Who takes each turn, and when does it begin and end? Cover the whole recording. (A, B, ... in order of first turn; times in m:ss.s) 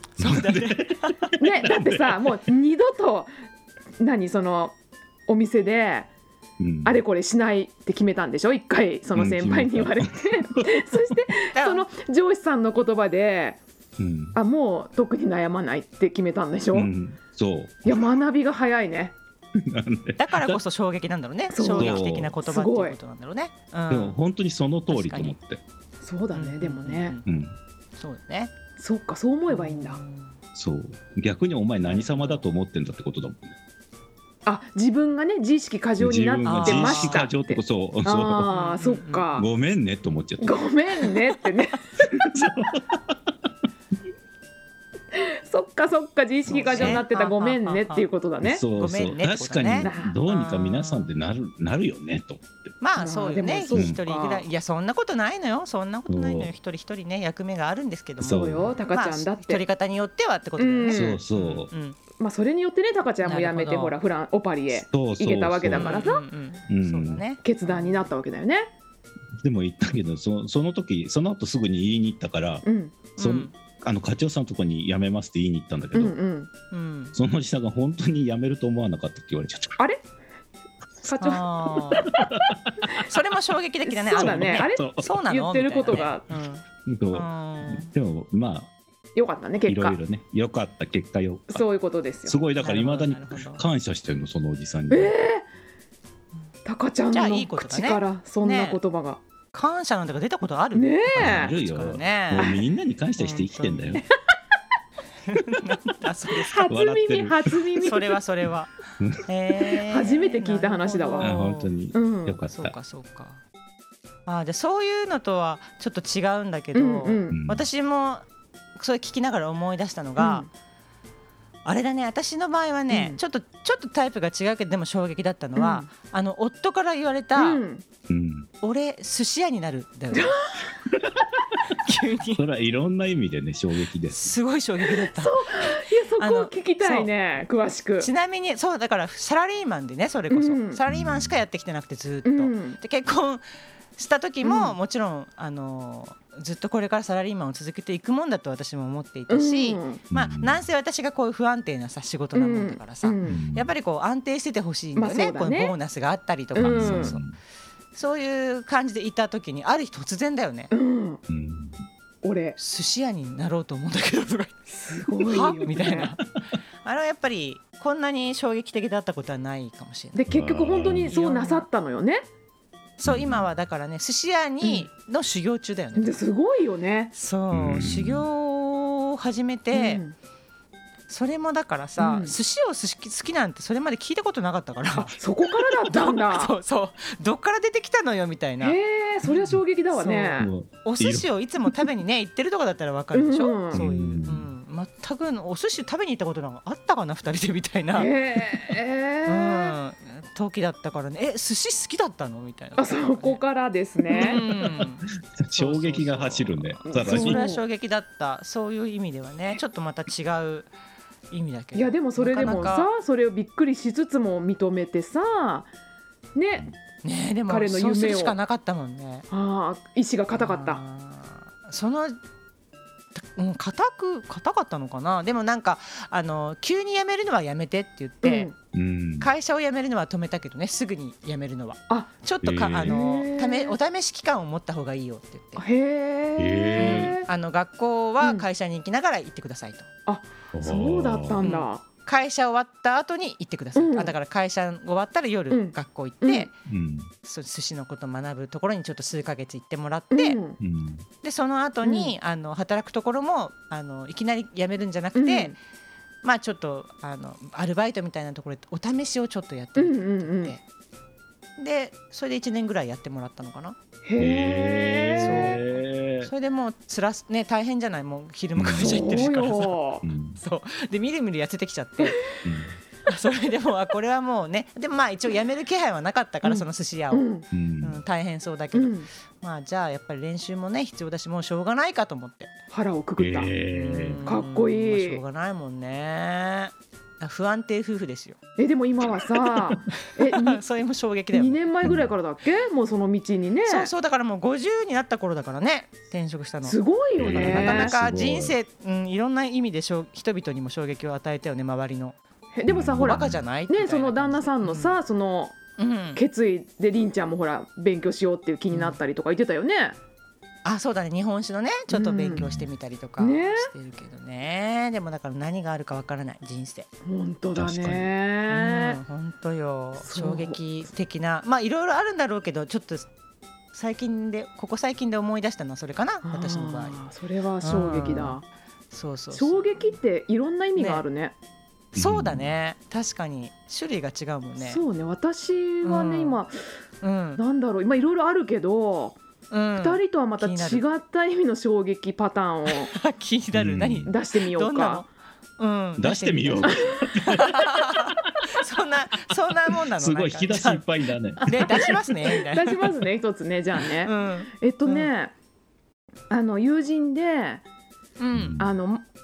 0:00.2-0:01.3 A
0:00.2-0:02.4 B
0:01.4-0:03.3 C
0:04.0-0:04.8 C
0:05.3-0:06.1 C
0:06.6-0:07.0 B
0:06.8-0:13.6 C
0:09.2-0:11.2 B
0:11.5-0:11.9 A
0:14.0-0:14.4 B
0:14.4-0:16.9 C
0:16.7-0:18.1 B
0:17.8-0:19.1 C
0:19.6-0:20.6 B
0:20.2-0:24.2 A
0:21.5-0:23.0 C
0:21.8-0:22.4 B
0:23.9-0:25.6 B
0:24.9-0:25.4 A
0:26.0-0:27.2 C
0:26.3-0:27.2 A
0:27.3-0:27.6 B
0:28.0-0:28.5 A
0:28.8-0:30.0 C
0:29.5-0:30.3 A
0:30.6-0:33.6 B
0:31.8-0:32.4 A
0:34.5-0:39.5 C
0:36.0-0:38.5 B
0:36.4-0:37.3 A
0:38.5-0:39.3 A
0:39.4-0:40.6 B
0:40.4-0:42.0 C
0:42.1-0:43.2 B
0:45.1-0:48.6 C
0:46.5-0:48.0 A
0:46.7-0:47.0 B
0:48.4-0:52.7 B
0:48.8-0:51.1 A
0:49.8-0:50.2 C
0:52.8-1:02.0 A
0:53.0-0:54.5 C
0:56.1-0:56.5 B
0:58.2-0:58.7 B
0:58.2-0:59.6 C
1:00.6-1:01.2 C
1:00.9-1:01.7 B
1:02.2-1:06.2 C
1:03.2-1:04.0 A
1:04.8-1:06.1 B
1:05.7-1:08.0 A
1:06.7-1:07.2 B
1:07.4-1:08.7 C
1:09.4-1:12.6 B
1:12.6-1:13.0 C
1:13.2-1:13.5 A
1:13.2-1:16.2 B
1:16.0-1:16.5 C
1:16.7-1:17.2 A
1:17.1-1:19.8 B
1:21.0-1:22.2 C
1:21.2-1:22.1 A
1:22.1-1:22.8 B
1:23.0-1:27.9 A
1:23.9-1:26.3 C
1:24.1-1:25.1 B
1:26.9-1:28.7 B
1:29.2-1:30.0 C
1:29.7-1:31.6 B
1:31.5-1:32.4 C
1:32.3-1:35.1 B
1:32.6-1:33.6 A
1:34.9-1:35.4 C
1:36.6-1:39.2 C
1:37.1-1:38.8 A
1:39.5-1:42.5 A
1:40.8-1:41.5 C
1:41.2-1:44.0 B
1:42.4-1:42.6 C
1:43.2-1:44.0 A
1:45.3-1:46.7 A
1:46.5-1:48.2 C
1:46.7-1:47.6 B
1:47.8-1:48.7 A
1:49.2-1:51.7 A
1:49.9-1:51.4 C
1:51.2-1:52.8 B
1:51.9-1:52.4 C
1:52.5-1:53.4 A
1:54.3-1:58.2 A
1:56.7-1:57.4 C
1:57.3-1:57.7 B
1:58.8-2:00.5 A
2:00.2-2:00.5 C
2:01.6-2:07.6 A
2:02.9-2:03.2 C
2:05.6-2:05.9 C
2:07.4-2:07.8 C
2:08.1-2:08.5 B
2:08.6-2:10.4 A
2:10.1-2:10.7 C
2:11.8-2:12.4 A
2:12.4-2:14.3 B
2:14.1-2:17.1 A
2:15.0-2:18.1 C
2:18.0-2:23.4 A
2:20.3-2:20.8 C
2:20.9-2:21.4 B
2:22.2-2:22.8 C
2:24.0-2:37.2 A
2:24.4-2:24.8 C
2:29.3-2:30.0 C
2:30.1-2:30.6 B
2:32.4-2:33.4 C
2:33.3-2:33.7 B
2:35.0-2:35.7 C
2:36.6-2:37.2 C
2:36.6-2:37.4 B
2:37.9-2:40.7 A
2:40.7-2:41.2 C
2:41.3-2:41.8 B
2:42.2-2:42.6 C
2:42.6-2:44.6 A
2:44.7-2:46.1 C
2:45.2-2:46.2 A
2:46.8-2:50.3 A
2:50.2-2:52.2 C
2:50.3-2:51.1 B
2:51.1-2:51.7 A
2:53.0-2:56.2 A
2:53.0-2:53.5 B
2:56.0-2:57.1 C
2:57.1-3:00.0 A
2:57.5-2:58.3 B
2:59.7-3:00.2 C
3:01.1-3:18.1 A
3:02.0-3:02.4 C
3:05.0-3:06.5 C
3:08.6-3:10.5 C
3:10.4-3:11.3 B
3:13.1-3:13.8 C
3:13.7-3:14.5 B
3:17.9-3:19.8 C
3:19.3-3:23.4 A
3:22.8-3:24.4 C
3:24.1-3:30.7 A
3:24.5-3:27.4 B
3:26.9-3:27.6 C
3:31.3-3:32.9 A
3:31.7-3:35.7 C
3:36.4-3:36.7 C
3:37.0-3:39.3 A
3:37.5-3:38.4 C
3:39.3-3:40.8 C
3:40.4-3:42.2 A
3:43.2-3:48.5 A
3:48.2-3:48.6 C
3:48.7-3:49.3 B
3:49.2-3:55.6 A
3:52.4-3:53.0 B
3:52.8-3:53.8 C
3:55.6-3:57.3 C
3:56.4-3:57.2 B
3:56.8-3:59.9 A
4:00.1-4:01.8 C
4:00.5-4:01.4 B
4:01.4-4:06.5 A
4:03.8-4:04.1 C
4:05.5-4:06.5 C
4:06.7-4:07.1 B
4:07.2-4:10.4 A
4:10.1-4:10.6 C
4:10.6-4:11.1 B
4:11.2-4:15.6 A
4:11.8-4:12.1 C
4:15.2-4:15.5 C
4:16.2-4:20.6 A
4:19.8-4:20.6 C
4:21.6-4:23.8 A
4:24.0-4:25.6 C
4:24.2-4:26.3 B
4:25.2-4:29.8 A
4:28.6-4:30.4 B
4:28.8-4:30.0 C
4:30.4-4:32.2 A
4:32.4-4:32.8 B
4:33.1-4:37.3 A
4:36.4-4:37.4 C
4:37.5-4:38.0 B
4:37.8-4:42.5 A
4:38.7-4:39.1 C
4:42.7-4:43.5 C
4:43.2-4:44.2 B
4:43.7-4:48.4 A
4:44.2-4:45.2 C
4:48.6-4:50.6 C
4:50.2-4:51.7 A
4:51.3-4:53.9 C
4:51.8-4:52.1 B
4:53.7-5:02.2 A
4:56.6-4:57.9 C
4:57.2-4:58.6 B
5:02.6-5:05.6 C
5:02.7-5:03.4 B
5:03.0-5:05.0 A
5:05.8-5:06.2 A
5:06.2-5:10.0 C
5:08.7-5:09.0 A
5:10.6-5:16.9 A
5:11.9-5:12.5 C
5:12.4-5:12.7 B
5:13.2-5:13.7 C
5:17.1-5:19.0 C
5:17.6-5:18.1 B
5:18.5-5:23.1 A
5:20.0-5:20.6 C
5:23.7-5:27.0 A
5:26.2-5:28.4 C
5:27.6-5:28.4 A
5:28.9-5:30.0 A
5:29.3-5:31.3 C
5:30.8-5:31.0 A
5:32.0-5:32.5 B
5:32.0-5:34.8 A
5:34.6-5:36.6 C
5:35.8-5:36.4 A
5:37.0-5:37.4 A
5:37.4-5:39.2 C
5:39.5-5:40.8 A
5:39.8-5:42.9 C
5:42.7-5:45.1 A
5:43.5-5:44.1 B
5:44.1-5:45.0 C
5:45.6-5:50.8 A
5:46.0-5:47.7 B
5:46.6-5:47.2 C
5:49.7-5:52.0 B
5:51.4-5:55.3 C
5:51.4-5:52.8 A
5:54.0-5:55.1 A
5:56.3-5:57.6 C
5:58.2-5:58.6 A
5:58.3-5:58.7 B
5:58.6-5:59.0 C